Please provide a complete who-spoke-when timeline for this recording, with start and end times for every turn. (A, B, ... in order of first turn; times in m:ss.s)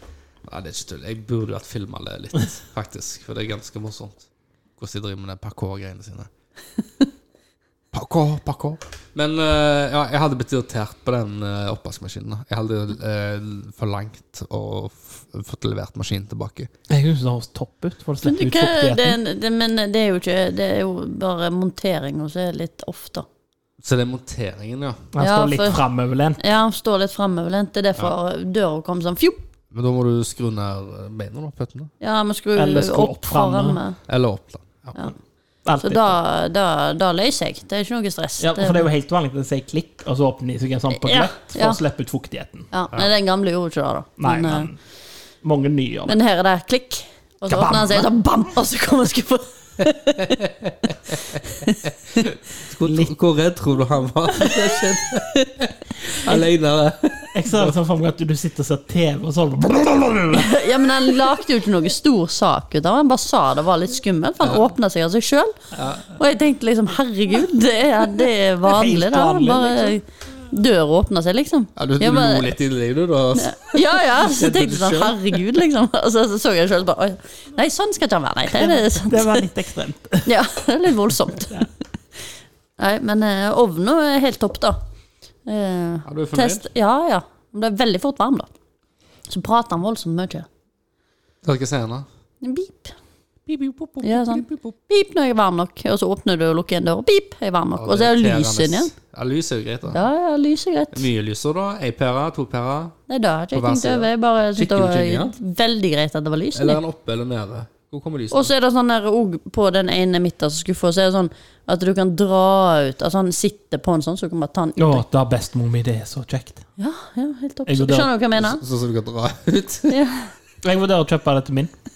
0:00.4-0:04.3 A
0:04.8-0:06.3 A
0:07.9-0:16.7 A
0:16.9-0:19.2 B
0:18.2-0:23.2 C
0:23.8-0:25.1 A
0:25.1-0:26.4 B
0:25.2-0:25.8 C
0:26.4-0:29.4 C
0:29.7-0:31.9 A
0:32.0-0:34.0 C
0:32.6-0:33.8 B
0:34.1-0:35.0 A
0:35.6-0:36.1 B
0:35.8-0:38.9 C
0:38.4-0:42.7 B
0:40.9-0:41.8 C
0:42.7-0:44.7 C
0:44.2-0:44.8 B
0:45.4-0:46.2 B
0:46.1-0:52.2 C
0:47.5-0:48.1 B
0:50.2-0:57.7 A
0:52.8-0:53.1 B
0:57.3-1:00.6 B
1:00.3-1:12.5 C
1:05.8-1:06.0 A
1:08.7-1:10.0 B
1:11.8-1:15.4 A
1:13.3-1:19.4 C
1:18.5-1:20.3 B
1:20.2-1:21.6 C
1:22.8-1:24.8 C
1:25.4-1:28.5 C
1:26.0-1:26.6 A
1:29.3-1:30.5 C
1:31.4-1:32.0 A
1:32.4-1:32.9 C
1:33.5-1:34.7 A
1:34.0-1:38.9 C
1:37.8-1:40.0 A
1:39.9-1:41.1 C
1:40.9-1:43.0 A
1:43.1-1:46.8 C
1:43.5-1:45.3 A
1:46.5-1:48.5 A
1:48.3-1:55.0 C
1:54.8-1:56.6 B
1:56.8-1:58.6 C
1:57.7-1:58.1 B
1:58.4-2:00.0 A
1:59.9-2:00.3 C
2:00.6-2:01.7 B